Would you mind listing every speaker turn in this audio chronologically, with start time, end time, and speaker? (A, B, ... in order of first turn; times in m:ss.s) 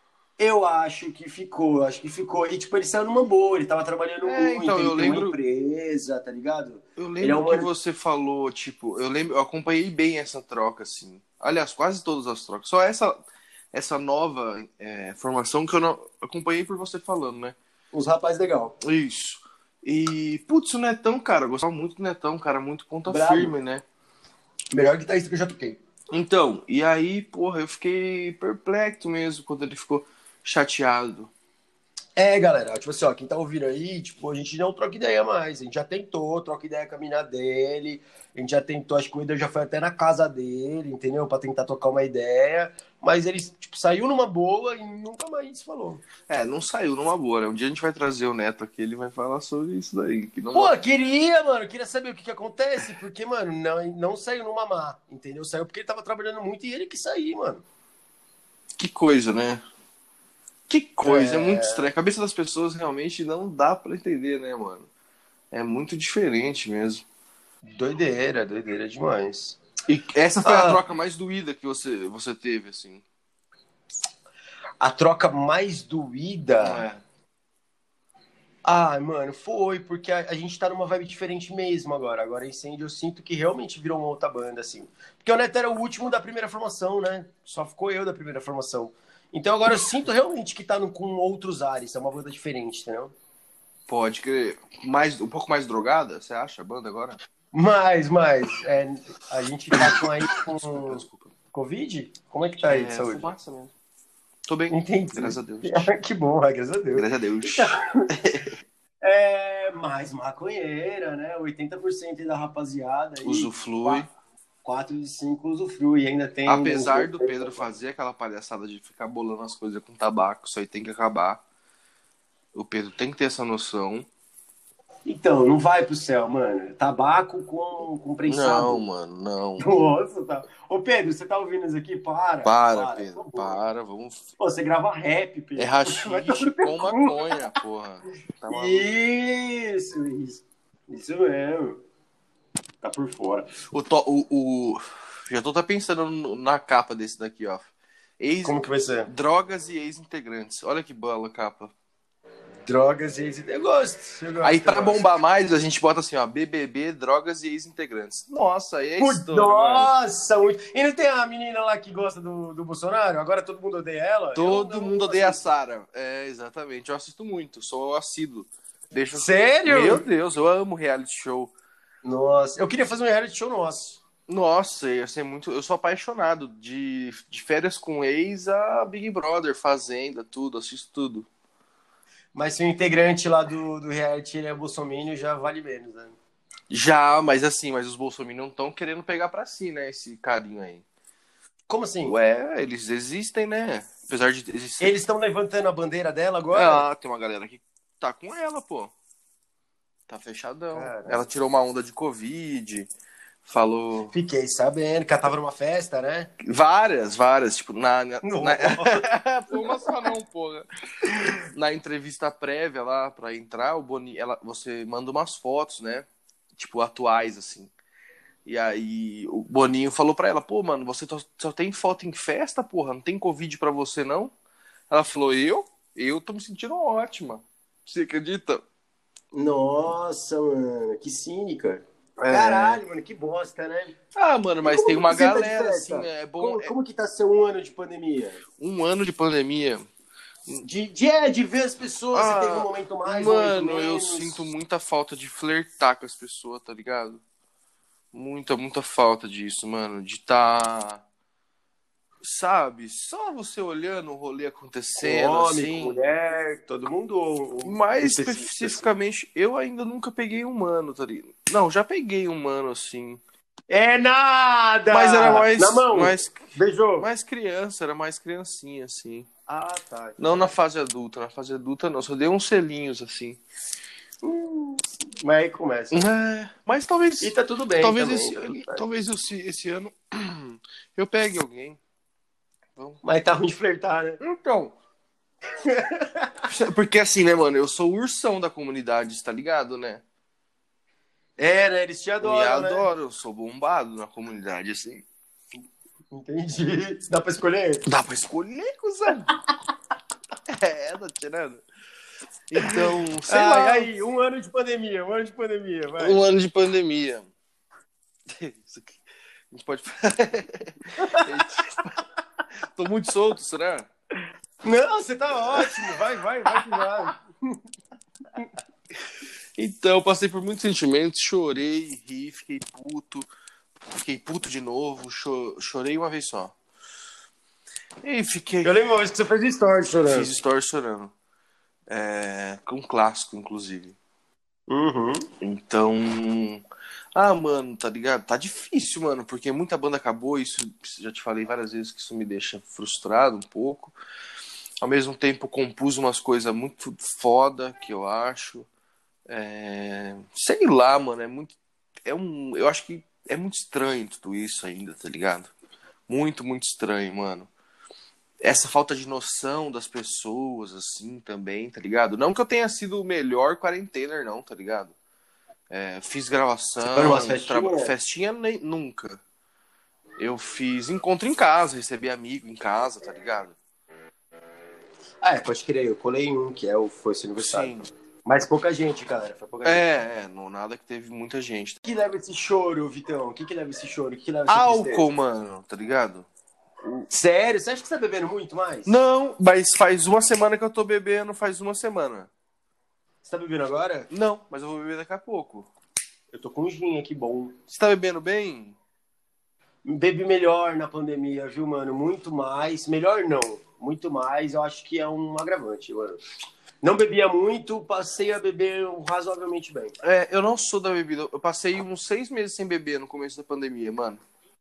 0:00.4-0:07.7 A
0:04.2-0:05.4 B
0:07.0-0:17.6 B
0:17.9-0:18.8 A
0:18.8-0:23.8 B
0:23.1-0:23.6 A
0:24.7-0:25.8 A
0:26.1-0:31.3 B
0:32.2-0:46.0 A
0:46.3-0:50.7 B
0:50.5-0:57.6 A
0:58.8-0:59.6 B
1:00.7-1:04.9 B
1:01.0-1:01.9 A
1:05.5-1:07.0 B
1:07.7-1:09.6 A
1:09.9-1:13.0 B
1:10.4-1:10.8 A
1:14.8-1:16.8 A
1:16.6-1:17.0 B
1:18.6-1:33.1 A
1:33.9-1:37.2 B
1:37.5-1:43.3 A
1:39.7-1:41.3 B
1:42.7-1:43.7 B
1:44.5-1:45.9 B
1:44.7-1:48.1 A
1:47.0-1:48.5 B
1:49.0-1:54.1 A
1:53.2-1:54.1 B
1:54.6-1:57.7 A
1:56.5-2:01.4 B
2:02.5-2:04.1 B
2:05.1-2:08.8 A
2:08.3-2:09.7 B
2:09.6-2:13.6 A
2:12.4-2:14.3 B
2:14.4-2:17.4 A
2:15.6-2:18.9 B
2:18.5-2:21.8 A
2:22.8-2:23.5 A
2:23.7-2:27.7 B
2:28.2-2:31.7 B
2:28.4-2:29.1 A
2:32.7-2:35.0 A
2:34.4-2:39.9 B
2:39.0-2:45.5 A
2:44.4-2:51.5 B
2:49.2-2:50.0 A
2:52.0-2:54.0 A
2:54.3-3:01.3 B
3:02.4-3:06.2 A
3:06.7-3:10.8 B
3:11.7-3:12.2 A
3:12.0-3:15.0 B
3:14.8-3:16.9 A
3:16.5-3:18.9 B
3:20.1-3:22.9 B
3:20.7-3:21.2 A
3:23.4-3:24.1 B
3:24.1-3:26.3 A
3:26.4-3:30.6 B
3:28.2-3:29.8 A
3:31.5-3:36.1 B
3:36.6-3:37.7 B
3:38.4-3:44.3 B
3:44.9-3:48.6 B
3:49.3-3:54.0 A
3:52.2-3:52.8 B
3:54.2-3:56.7 B
3:54.6-3:58.4 A
3:58.6-3:59.9 B
4:00.6-4:04.4 A
4:02.1-4:07.2 B
4:08.1-4:11.0 B
4:12.2-4:16.0 B
4:15.0-4:18.8 A
4:17.6-4:23.2 B
4:23.7-4:27.1 A
4:24.9-4:29.3 B
4:29.5-4:30.6 A
4:30.2-4:33.4 B
4:34.2-4:36.1 A
4:35.9-4:41.8 B
4:37.2-4:38.8 A
4:43.0-4:44.2 A
4:44.2-4:44.7 B
4:45.6-4:46.5 A
4:46.5-4:50.0 B
4:51.4-4:52.9 A
4:52.2-4:55.0 B
4:56.1-4:57.8 A
4:57.9-4:59.3 B
5:00.5-5:01.6 B
5:02.5-5:03.9 B
5:03.3-5:06.2 A
5:06.0-5:07.3 B
5:08.3-5:09.0 B
5:09.5-5:11.9 B
5:11.0-5:11.3 A
5:12.7-5:13.9 B
5:14.6-5:17.6 A
5:15.5-5:15.9 B
5:16.5-5:16.9 B
5:19.6-5:23.3 B
5:23.9-5:26.5 B
5:28.0-5:28.7 B
5:28.6-5:30.3 A
5:30.1-5:31.1 B
5:31.9-5:34.0 B
5:34.7-5:35.3 A
5:35.4-5:36.6 B
5:37.2-5:43.9 B
5:44.8-5:48.7 B
5:49.3-5:55.5 B
5:56.1-5:57.5 B
5:58.4-6:04.9 B
6:05.7-6:09.2 B
6:06.9-6:07.9 A
6:10.2-6:13.6 B
6:15.2-6:19.9 A
6:17.4-6:17.9 B
6:19.6-6:21.8 B
6:21.8-6:25.1 A
6:24.5-6:26.3 B
6:27.1-6:29.0 A
6:28.9-6:32.3 B
6:33.2-6:34.1 A
6:34.1-6:35.7 B
6:36.3-6:37.6 A
6:37.7-6:38.8 B
6:39.8-6:46.2 A
6:46.8-6:50.0 A
6:50.0-6:54.2 B